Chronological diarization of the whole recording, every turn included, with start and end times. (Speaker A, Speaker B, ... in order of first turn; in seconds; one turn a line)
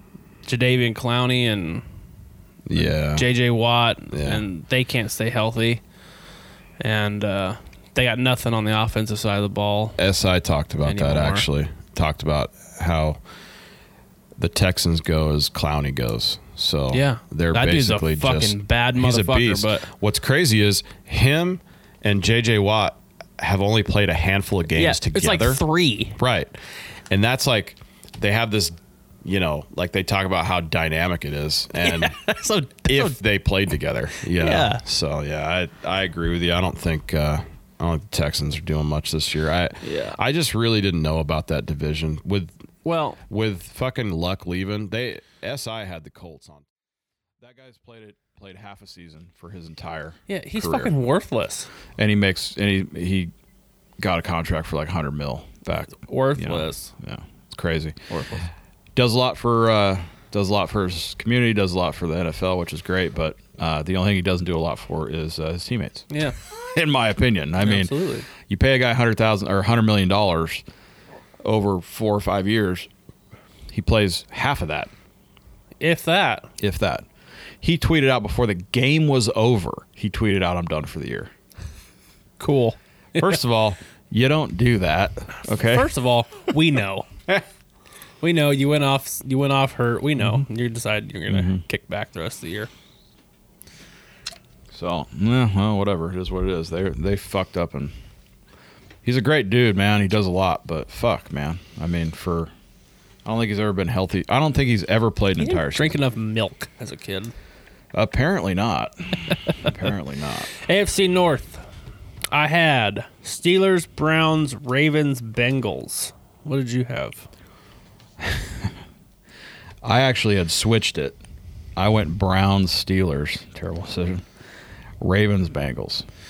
Speaker A: 0.4-1.8
Speaker B: 2.6-3.3
Speaker A: 3.1-5.8
Speaker B: 4.1-4.4
Speaker A: 6.8-10.0
Speaker B: 10.0-13.2
Speaker A: 10.8-11.4
Speaker B: 14.4-25.6
Speaker A: 16.9-19.9
Speaker A: 24.8-26.2
Speaker B: 26.2-26.6
Speaker B: 27.1-32.2
Speaker A: 31.8-33.2
Speaker B: 32.9-42.6
Speaker A: 34.3-34.8
Speaker A: 39.8-40.2
Speaker A: 42.8-43.2
Speaker B: 43.3-46.6
Speaker C: 47.4-50.9
Speaker A: 50.3-51.7
Speaker C: 52.0-53.3
Speaker C: 54.0-58.1
Speaker A: 55.9-56.9
Speaker A: 58.1-58.5
Speaker C: 58.9-70.6
Speaker A: 66.1-66.3
Speaker A: 67.6-68.3
Speaker C: 71.4-72.9
Speaker C: 73.7-74.9
Speaker A: 75.8-76.5
Speaker C: 76.6-77.0
Speaker C: 77.6-81.3
Speaker A: 82.4-83.3
Speaker C: 83.2-85.9
Speaker A: 85.5-87.1
Speaker A: 88.2-92.7
Speaker C: 90.2-90.4
Speaker C: 91.3-91.6
Speaker C: 94.7-97.9
Speaker C: 99.0-102.5
Speaker C: 103.2-106.0
Speaker A: 105.4-107.3
Speaker C: 107.9-110.5
Speaker A: 110.6-111.6
Speaker A: 112.3-117.3
Speaker C: 118.2-118.7
Speaker C: 119.8-121.2
Speaker C: 121.8-124.2
Speaker C: 125.0-126.0